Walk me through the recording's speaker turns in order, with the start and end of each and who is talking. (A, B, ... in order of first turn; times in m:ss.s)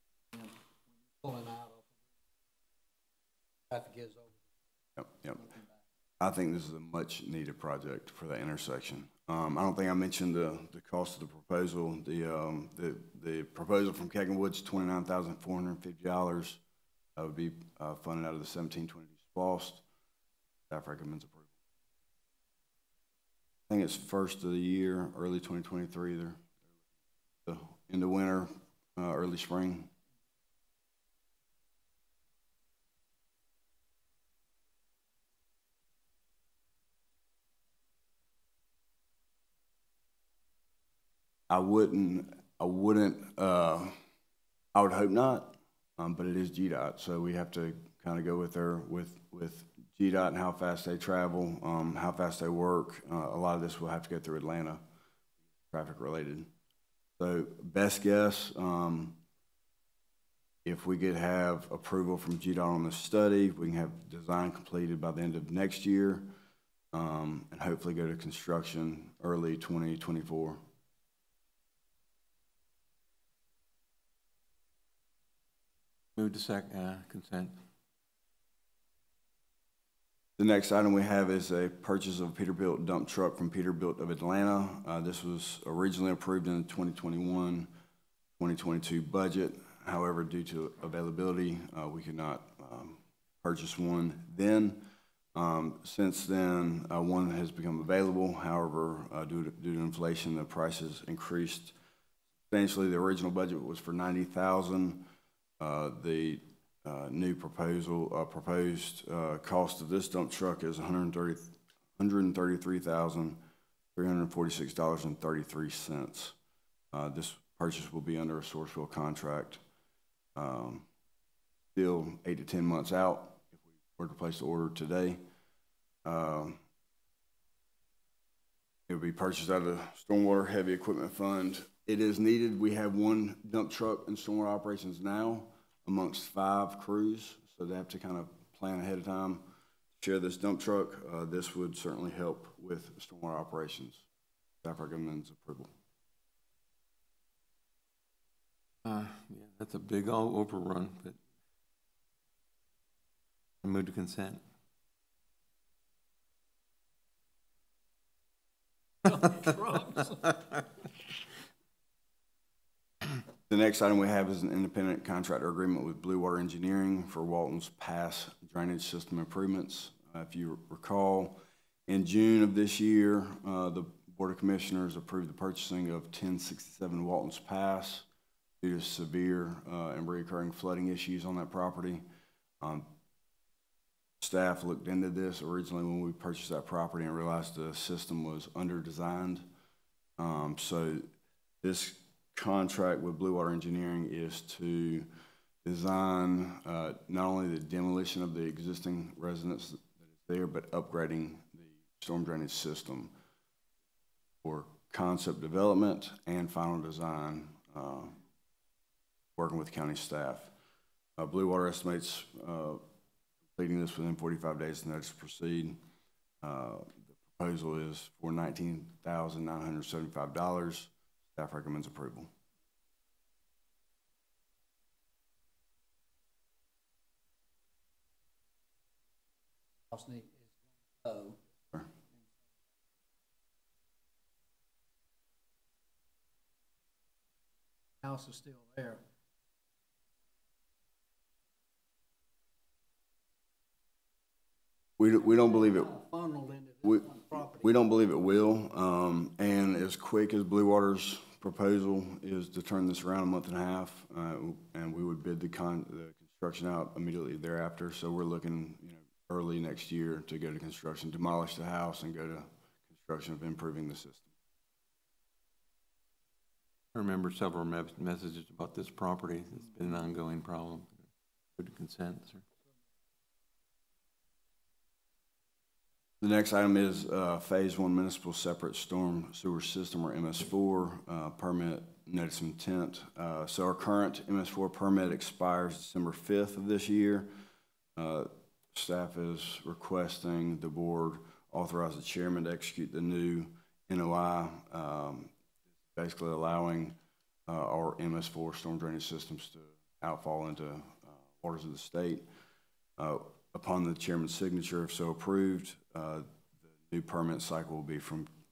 0:01.2-0:01.9 A
0:03.7-0:04.4 A
0:05.0-0:05.4 B
0:06.2-0:16.6 B
0:17.2-0:19.8 B
0:20.7-0:21.5 B
0:23.7-0:26.4 B
0:27.5-0:29.9 B
0:41.5-0:43.9 B
0:44.7-0:54.8 B
0:55.7-0:56.5 B
0:57.2-0:59.2 B
1:00.6-1:06.3 B
1:06.9-1:10.6 B
1:16.2-1:17.5 C
1:20.4-1:27.7 B
1:28.4-1:34.8 B
1:35.4-1:41.8 B
1:42.5-1:45.1 B
1:45.6-1:53.4 B
1:54.0-1:56.4 B
1:56.9-1:59.6 B
2:00.4-2:00.9 B
2:01.8-2:05.2 B
2:06.0-2:06.6 B
2:08.9-2:19.5 B
2:20.0-2:24.0 B
2:24.6-2:25.7 B
2:28.8-2:31.2 C
2:33.6-2:34.4 C
2:39.5-2:40.1 A
2:43.5-2:58.1 B
2:58.6-3:02.0 B
3:02.6-3:02.9 B
3:04.2-3:09.4 B
3:10.2-3:11.0 B
3:11.6-3:15.1 B
3:15.6-3:23.1 B
3:24.4-3:28.2 B
3:29.4-3:30.5 B
3:31.2-3:32.8 B
3:33.6-3:35.8 B
3:36.4-3:42.3 B
3:49.9-3:51.4 A
3:58.0-3:59.0 A
4:05.0-4:06.0 B
4:05.4-4:07.7 A
4:06.8-4:24.3 B
4:26.9-4:32.4 C
4:36.2-4:47.3 B
4:48.0-4:55.3 B
4:56.0-5:02.2 B
5:03.0-5:08.3 B